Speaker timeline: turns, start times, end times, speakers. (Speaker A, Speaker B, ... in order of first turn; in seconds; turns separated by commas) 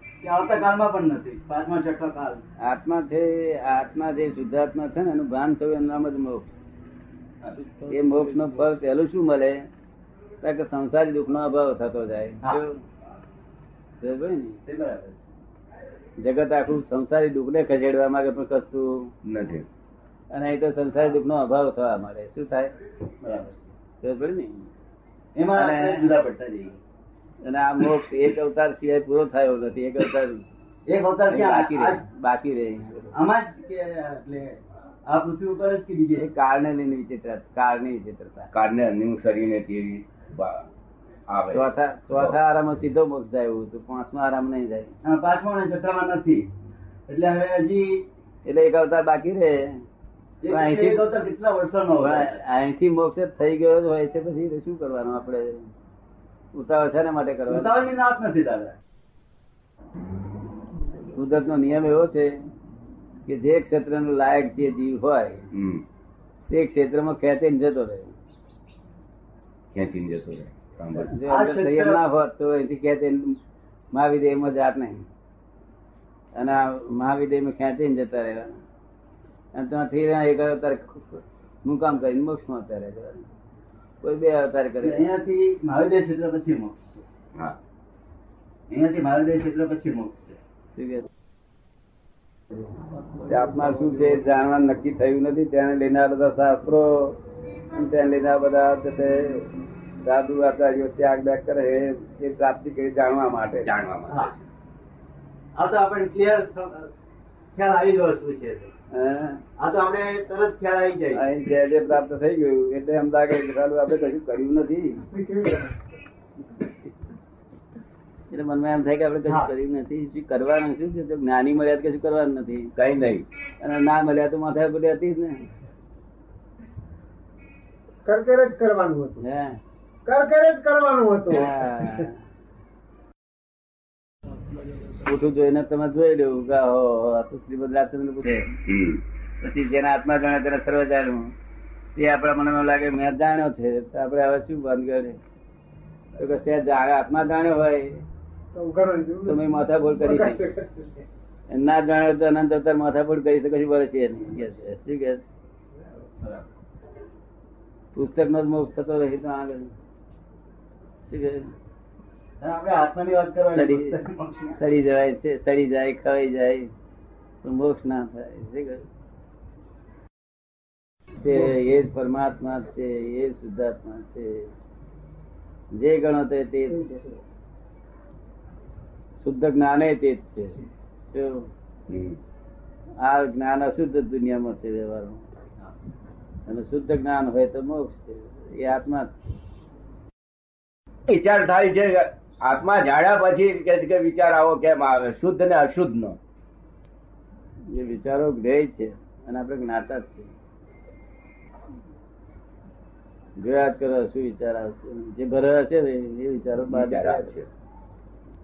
Speaker A: 0.2-2.4, Speaker B: 2.6-6.5, Speaker B: 7.8-9.7, Speaker B: 10.4-12.8, Speaker B: 14.0-14.6, Speaker A: 14.7-15.3, Speaker B: 16.2-19.1, Speaker C: 19.2-19.7, Speaker B: 20.3-22.7, Speaker A: 23.2-23.7, Speaker B: 24.0-24.7, Speaker A: 25.3-26.8, Speaker B: 25.5-26.1, Speaker B: 27.4-30.4, Speaker A: 30.9-32.0, Speaker B: 31.3-33.1, Speaker A: 33.1-36.3, Speaker B: 36.1-38.5, Speaker C: 38.5-40.7, Speaker C: 41.3-42.4, Speaker B: 41.5-44.9, Speaker A: 45.0-46.5, Speaker A: 47.1-48.0, Speaker B: 48.4-49.8, Speaker A: 50.4-52.4, Speaker B: 50.5-51.0, Speaker B: 52.0-55.7, Speaker B: 56.5-57.7, Speaker A: 57.5-58.8, Speaker B: 61.1-62.4, Speaker B: 63.2-65.5, Speaker C: 65.5-65.8, Speaker B: 66.5-68.1, Speaker C: 69.7-71.1, Speaker A: 71.0-72.0, Speaker B: 71.1-73.4, Speaker B: 73.9-75.0, Speaker B: 76.3-78.6, Speaker B: 79.5-83.2, Speaker B: 84.0-85.0, Speaker A: 84.8-87.0, Speaker A: 88.7-90.4, Speaker B: 90.8-91.1, Speaker A: 92.9-94.2, Speaker B: 93.3-97.2, Speaker B: 97.7-99.5, Speaker B: 100.0-103.7, Speaker C: 103.6-104.4, Speaker A: 104.1-104.3, Speaker A: 105.5-106.9, Speaker A: 107.5-108.7, Speaker B: 108.9-109.4, Speaker A: 109.6-111.2, Speaker B: 111.1-115.0, Speaker D: 115.1-115.8, Speaker B: 118.3-122.7, Speaker A: 119.2-119.5, Speaker C: 122.8-123.2, Speaker B: 123.6-125.5, Speaker D: 128.0-129.2, Speaker B: 129.2-129.6, Speaker D: 130.0-132.1, Speaker B: 131.3-132.2, Speaker B: 135.0-138.6, Speaker C: 138.7-139.0, Speaker B: 139.4-141.3, Speaker B: 141.9-145.2, Speaker B: 146.2-148.0, Speaker D: 148.5-149.5, Speaker B: 149.2-150.4, Speaker D: 150.0-151.0, Speaker B: 151.5-155.2, Speaker A: 156.2-156.4, Speaker B: 157.9-159.7, Speaker B: 161.1-161.5, Speaker A: 162.4-164.6, Speaker B: 163.5-164.0, Speaker B: 164.6-166.7, Speaker B: 167.4-168.8, Speaker B: 171.2-174.5, Speaker B: 175.7-177.1, Speaker B: 179.2-181.5, Speaker C: 181.9-182.2, Speaker B: 183.0-185.2, Speaker B: 186.4-189.2, Speaker C: 191.1-196.2, Speaker B: 197.7-200.3, Speaker B: 203.4-207.4, Speaker C: 206.7-207.5